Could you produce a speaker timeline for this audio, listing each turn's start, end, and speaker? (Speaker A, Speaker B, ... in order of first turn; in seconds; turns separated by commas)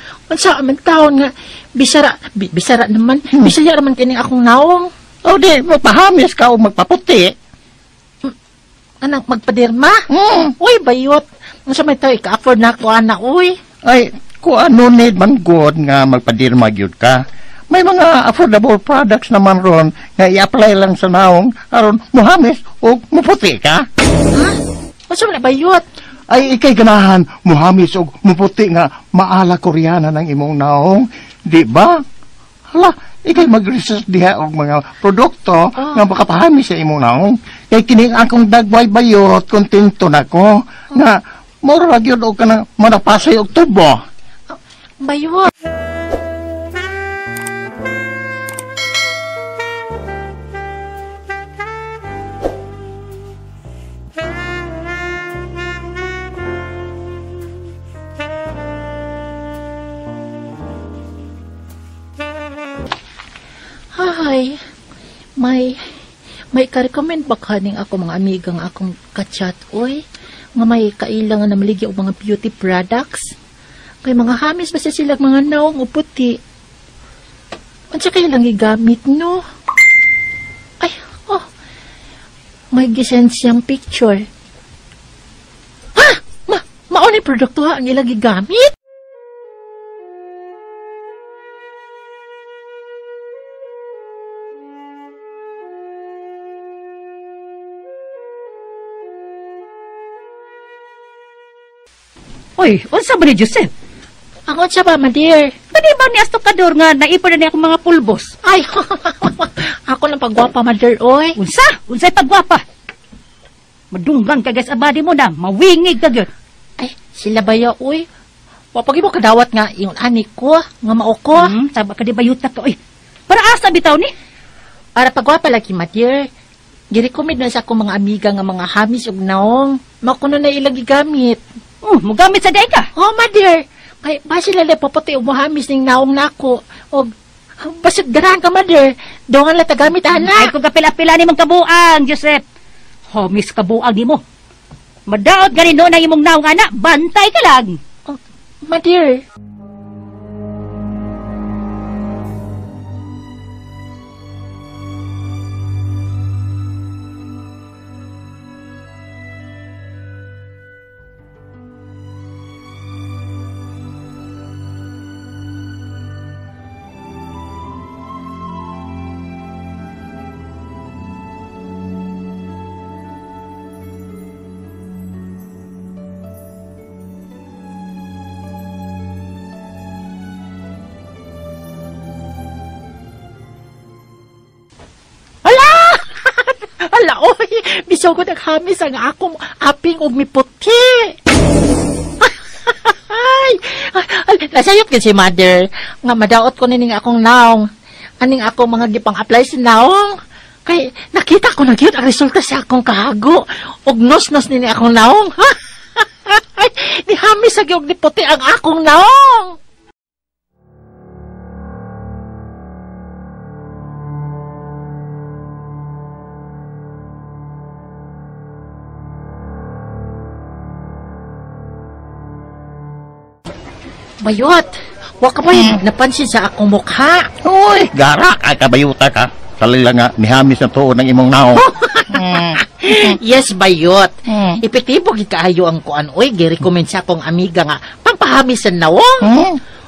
Speaker A: 0.3-4.9, Speaker B: 5.2-7.3, Speaker A: 9.0-10.1, Speaker B: 10.1-10.5, Speaker A: 10.6-13.6, Speaker B: 13.8-23.8, Speaker A: 24.3-24.6, Speaker A: 25.1-25.8, Speaker B: 26.3-32.0, Speaker B: 32.7-44.0, Speaker A: 35.8-36.1, Speaker A: 44.5-45.5, Speaker A: 64.0-64.6, Speaker A: 65.4-65.8, Speaker A: 66.5-70.0, Speaker A: 70.6-73.3, Speaker A: 74.0-76.4, Speaker A: 77.9-79.4, Speaker A: 80.8-81.5, Speaker A: 82.7-84.3, Speaker A: 86.0-88.7, Speaker C: 102.6-103.7, Speaker A: 104.5-105.5, Speaker C: 105.7-108.3, Speaker A: 108.4-111.4, Speaker C: 111.4-112.6, Speaker C: 113.9-116.3, Speaker A: 116.8-118.1, Speaker A: 118.8-121.5, Speaker C: 121.3-122.8, Speaker C: 123.3-124.1, Speaker A: 125.0-126.3, Speaker A: 126.9-131.4, Speaker C: 131.8-132.9, Speaker A: 132.9-137.1, Speaker A: 137.6-140.5, Speaker C: 140.3-142.4, Speaker C: 143.1-144.2, Speaker C: 145.1-147.8, Speaker A: 148.1-149.2, Speaker A: 185.4-191.2, Speaker A: 192.2-197.7, Speaker A: 198.2-209.6, Speaker A: 224.2-227.3, Speaker B: 227.4-232.6, Speaker A: 231.7-239.3, Speaker B: 234.3-234.6, Speaker B: 239.2-239.6